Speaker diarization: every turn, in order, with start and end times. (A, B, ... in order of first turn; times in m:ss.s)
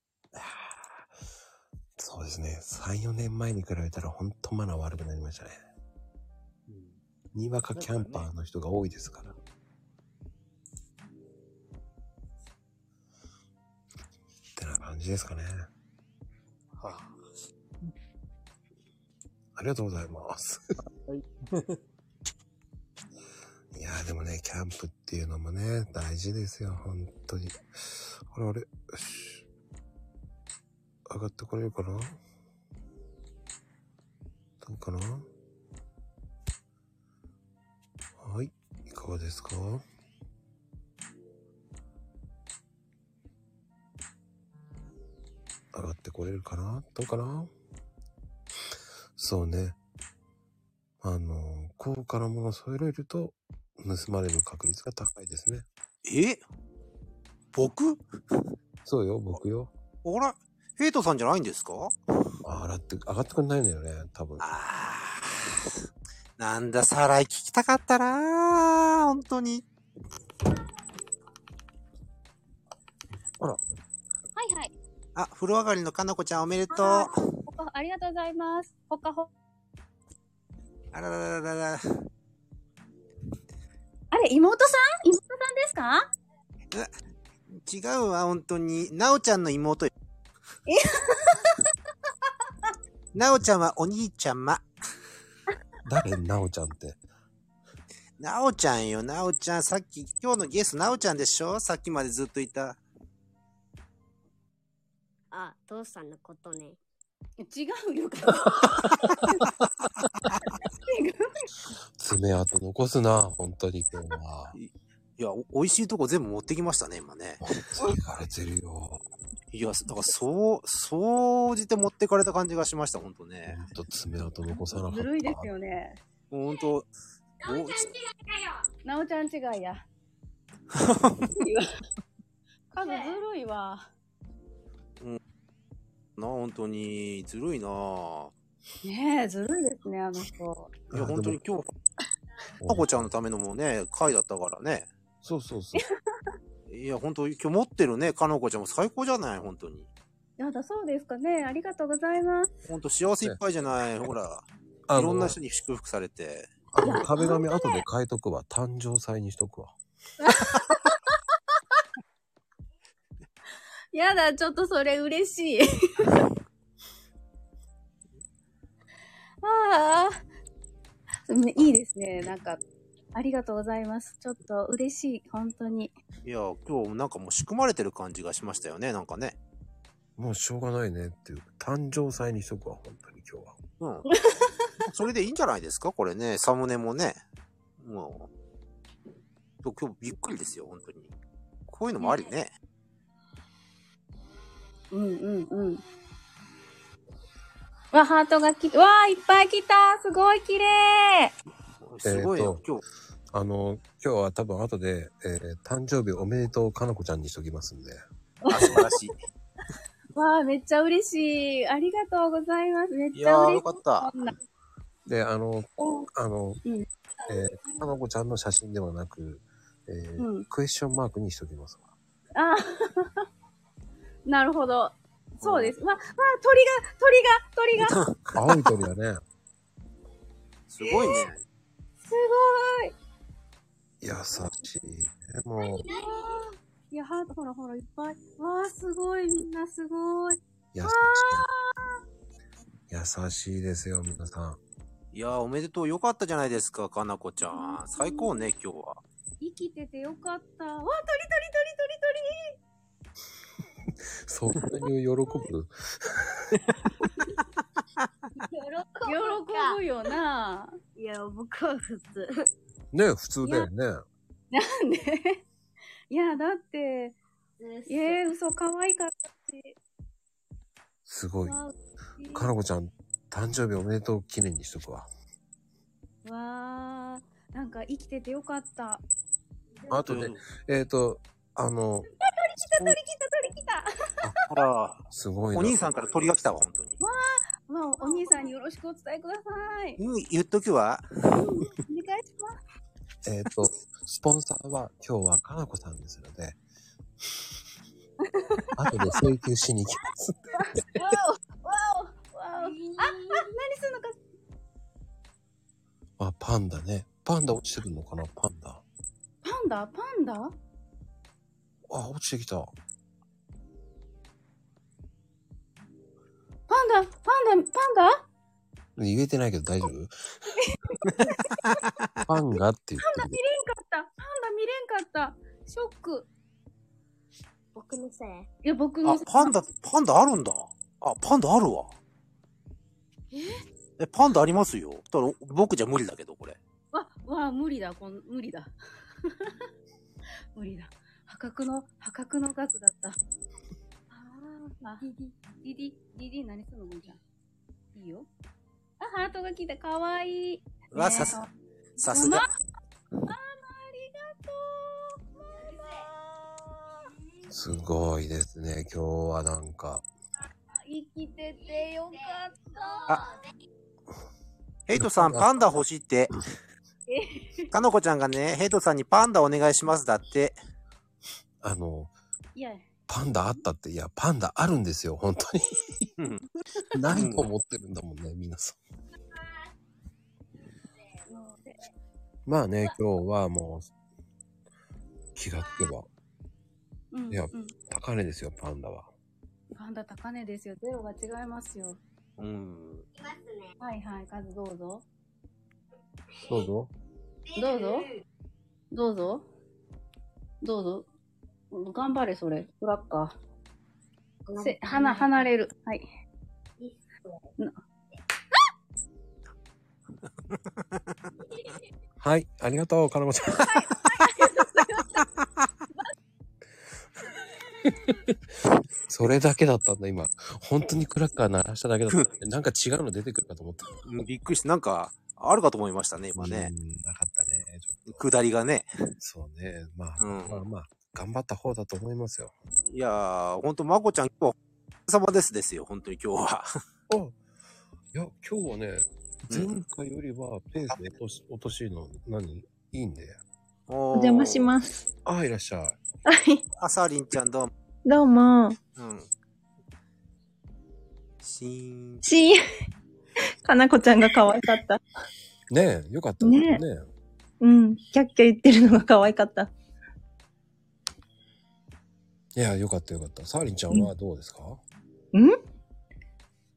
0:00.4-0:01.1 A
0:02.0-0:05.6 A
0:06.7-0:07.0 B
0:07.3-0:09.3 A
0:07.7-0:08.3 B
0:14.6-0:15.7 A
0:16.8-0:17.2 B
0:19.6-0:20.6 A
0:21.0-0:21.8 B
0:23.7-0:29.4 A
0:31.1-0:32.2 A
0:34.6-0:35.3 A
0:38.2-0:39.8 A
0:45.7-0:47.5 A
0:49.2-0:49.8 A
0:51.0-0:55.7 A
0:56.0-0:56.4 C
0:57.5-0:58.0 C
0:58.8-0:59.7 A
1:00.0-1:02.0 C
1:02.4-1:04.4 A
1:04.4-1:05.8 C
1:06.4-1:09.6 C
1:14.4-1:14.7 D
1:15.2-1:17.1 C
1:16.7-1:19.3 D
1:20.9-1:21.9 C
1:24.1-1:26.1 D
1:27.6-1:29.9 C
1:30.7-1:31.5 D
1:33.1-1:34.6 C
1:35.8-1:37.0 A
1:38.2-1:42.8 C
1:45.3-1:46.8 E
1:47.4-1:49.4 D
1:50.9-1:51.3 D
1:52.0-1:54.6 A
1:54.5-1:57.4 C
1:57.6-1:59.0 A
1:59.5-2:03.6 C
2:03.5-2:05.5 A
2:04.5-2:06.0 D
2:06.3-2:06.9 C
2:07.4-2:07.9 C
2:08.8-2:09.8 D
2:10.7-2:11.2 C
2:11.4-2:11.7 D
2:12.7-2:13.9 D
2:12.8-2:13.2 E
2:16.2-2:18.3 C
2:18.8-2:20.8 D
2:20.9-2:21.4 A
2:20.9-2:21.7 C
2:22.6-2:23.1 A
2:22.7-2:24.9 C
2:25.2-2:25.8 A
2:26.7-2:29.9 C
2:30.4-2:32.5 D
2:32.7-2:36.5 C
2:34.9-2:35.4 A
2:36.7-2:39.8 A
2:36.8-2:37.8 D
2:40.2-2:41.0 D
2:43.9-2:46.3 D
2:49.4-2:50.2 D
2:51.3-2:52.6 D
2:53.1-2:55.9 D
2:56.2-2:59.4 C
3:00.2-3:03.6 A
3:03.8-3:04.1 C
3:04.1-3:04.5 D
3:04.9-3:07.2 C
3:07.8-3:08.3 C
3:09.6-3:11.1 C
3:11.7-3:12.5 C
3:12.0-3:12.3 D
3:14.9-3:15.8 D
3:17.9-3:21.3 D
3:21.8-3:22.8 C
3:22.0-3:22.6 A
3:23.3-3:28.0 A
3:28.4-3:28.9 D
3:28.5-3:29.2 C
3:30.1-3:34.4 D
3:33.1-3:34.1 C
3:35.1-3:36.6 A
3:35.8-3:36.1 D
3:36.6-3:37.3 D
3:37.3-3:41.9 A
3:40.2-3:40.5 D
3:42.4-3:43.2 D
3:44.3-3:48.0 D
3:45.4-3:45.7 C
3:47.8-3:48.4 C
3:48.4-3:49.2 A
3:50.7-3:51.4 C
3:50.8-3:51.3 D
3:52.0-3:52.9 D
3:54.0-3:55.9 A
3:55.8-4:01.9 D
3:55.9-3:56.5 E
4:00.7-4:01.5 A
4:02.9-4:04.6 A
4:05.1-4:09.0 C
4:07.4-4:08.5 D
4:09.4-4:12.5 D
4:14.3-4:16.6 A
4:18.4-4:19.8 E
4:19.0-4:20.7 D
4:21.0-4:22.5 E
4:22.9-4:24.0 A
4:24.5-4:25.4 D
4:26.1-4:27.2 D
4:27.6-4:28.3 E
4:27.9-4:29.8 D
4:31.1-4:31.6 A
4:31.4-4:32.5 D
4:32.3-4:35.1 A
4:36.2-4:39.0 D
4:39.9-4:42.1 A
4:40.0-4:40.4 C
4:42.4-4:43.9 D
4:44.5-4:45.0 C
4:45.1-4:46.1 A
4:45.5-4:47.0 C
4:47.0-4:50.0 D
4:48.0-4:48.5 E
4:50.0-4:51.1 C
4:51.3-4:52.6 D
4:53.2-4:56.6 A
4:58.3-4:58.7 D
4:58.8-5:01.2 A
5:00.6-5:04.2 D
5:03.0-5:03.4 E
5:06.2-5:08.8 A
5:09.4-5:10.5 D
5:11.9-5:12.7 A
5:16.7-5:18.2 D
5:19.0-5:20.2 A
5:20.6-5:21.5 D
5:21.2-5:21.8 C
5:22.3-5:23.4 A
5:23.0-5:26.3 D
5:27.8-5:28.5 E
5:28.6-5:29.6 D
5:29.0-5:31.9 C
5:33.3-5:33.6 D
5:34.0-5:36.6 C
5:36.9-5:38.7 D
5:39.2-5:39.6 D
5:40.5-5:43.2 D
5:44.1-5:47.2 D
5:47.9-5:48.3 D
5:49.0-5:51.5 D
5:50.9-5:51.4 C
5:52.0-5:52.5 C
5:52.0-5:52.5 D
5:53.3-5:55.8 D
5:55.7-5:56.0 E
5:57.5-6:00.0 A
6:00.8-6:03.2 D
6:03.0-6:03.5 E
6:04.9-6:06.4 C
6:05.0-6:05.5 A
6:07.1-6:07.7 D
6:07.7-6:10.6 C
6:11.6-6:12.1 A
6:12.6-6:12.8 D
6:13.1-6:16.1 A
6:16.2-6:16.5 C
6:16.9-6:18.8 A
6:17.1-6:17.5 C
6:21.3-6:21.8 D
6:22.5-6:23.9 A
6:25.4-6:26.1 A
6:27.1-6:27.7 D
6:27.3-6:29.1 A
6:29.8-6:32.0 D
6:32.4-6:33.1 C
6:33.2-6:33.7 E
6:33.8-6:35.0 D
6:36.4-6:36.9 A
6:37.5-6:38.2 E
6:37.6-6:38.1 D
6:38.9-6:39.4 D
6:40.6-6:41.1 D
6:41.7-6:43.4 D
6:44.5-6:45.5 E
6:44.6-6:46.1 D
6:52.2-6:53.9 A
6:53.7-6:55.1 D
6:57.9-6:58.3 A
6:59.1-7:04.0 A
7:04.0-7:06.7 C
7:06.4-7:08.2 A
7:08.1-7:09.0 C
7:09.2-7:12.5 A
7:10.2-7:10.6 C
7:12.9-7:14.6 C
7:15.1-7:16.7 C
7:17.1-7:17.4 A
7:18.1-7:23.4 A
7:19.5-7:19.8 C
7:23.9-7:24.7 C
7:24.1-7:25.0 F
7:25.2-7:26.0 A
7:26.3-7:26.6 F
7:26.8-7:27.7 C
7:28.1-7:28.8 F
7:29.0-7:29.3 C
7:31.4-7:32.2 C
7:32.2-7:32.6 F
7:33.6-7:35.0 F
7:35.7-7:37.1 A
7:36.4-7:36.8 F
7:37.6-7:39.7 F
7:42.6-7:44.8 A